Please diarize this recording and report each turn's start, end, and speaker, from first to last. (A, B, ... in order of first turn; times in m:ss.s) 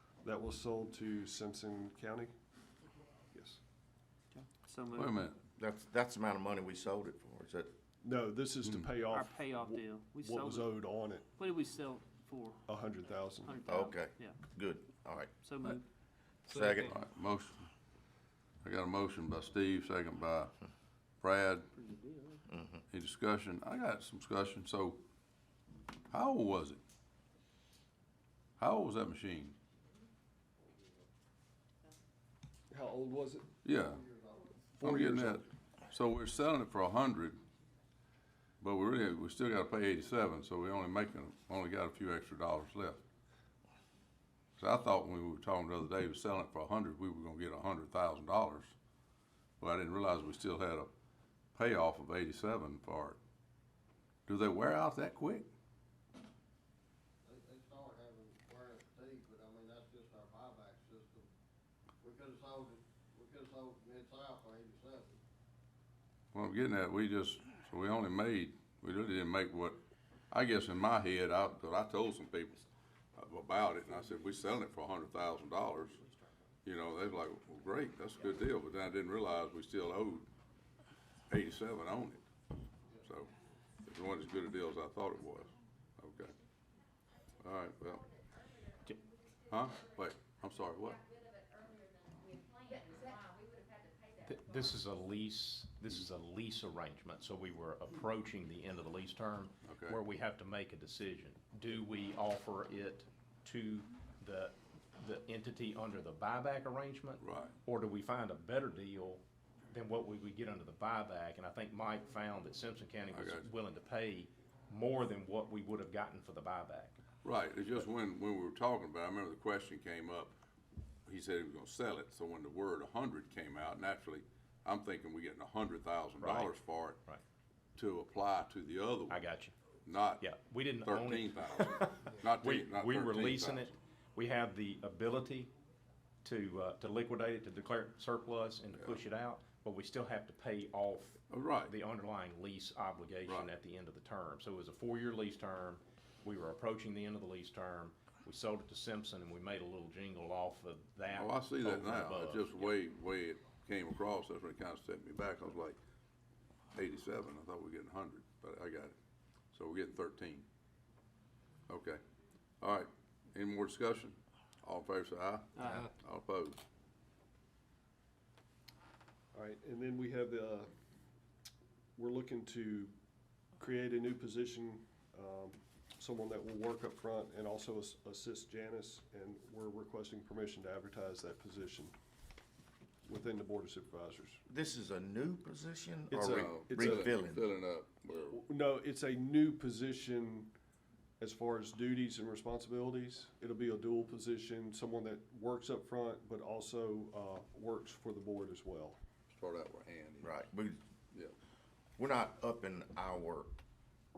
0:00.2-0:02.3 A
0:03.3-0:03.6 A
0:04.3-0:05.2 B
0:05.0-0:05.4 C
0:05.6-0:07.7 D
0:08.0-0:11.3 A
0:08.6-0:08.9 C
0:09.1-0:10.8 B
0:11.4-0:12.6 B
0:12.7-0:13.6 A
0:13.4-0:14.4 B
0:13.7-0:15.3 D
0:15.4-0:15.8 B
0:16.5-0:17.0 D
0:16.8-0:17.7 C
0:18.6-0:20.6 C
0:21.2-0:21.7 C
0:21.7-0:22.4 B
0:22.5-0:22.8 D
0:22.9-0:25.0 C
0:26.1-0:26.8 C
0:28.6-0:29.6 C
0:32.7-0:33.5 A
0:33.6-0:34.0 C
0:33.8-0:34.6 E
0:34.8-0:37.4 C
0:34.8-0:35.5 A
0:38.6-0:43.0 C
0:44.6-0:48.8 C
0:49.6-0:50.9 C
0:51.6-0:53.2 C
0:54.3-0:55.5 C
0:57.2-1:01.3 E
1:02.0-1:05.2 E
1:06.3-1:09.8 C
1:10.3-1:16.0 C
1:16.6-1:20.3 C
1:21.3-1:22.3 C
1:23.0-1:23.3 C
1:23.8-1:26.4 C
1:27.4-1:28.1 C
1:27.4-1:35.1 F
1:29.5-1:31.0 C
1:34.2-1:57.0 G
1:39.6-1:40.0 C
1:47.2-1:47.5 C
1:53.1-1:53.5 C
1:57.2-2:00.4 C
2:01.1-2:07.0 C
2:06.2-2:07.2 G
2:07.8-2:09.2 C
2:09.1-2:09.5 G
2:09.9-2:10.2 C
2:10.2-2:15.5 G
2:10.8-2:13.8 C
2:16.2-2:32.8 G
2:18.8-2:19.0 C
2:21.3-2:21.7 C
2:23.2-2:23.5 C
2:31.1-2:35.8 C
2:36.8-2:39.0 C
2:39.5-2:40.5 C
2:41.7-2:42.0 C
2:42.6-2:46.6 C
2:45.6-2:45.9 B
2:49.3-2:50.7 A
2:52.0-2:53.0 A
2:53.6-3:01.9 A
3:03.1-3:04.4 A
3:04.5-3:07.5 D
3:06.1-3:07.2 A
3:06.2-3:08.5 C
3:08.3-3:10.5 A
3:11.2-3:19.0 A
3:19.3-3:20.4 C
3:20.2-3:20.8 D
3:22.0-3:23.5 D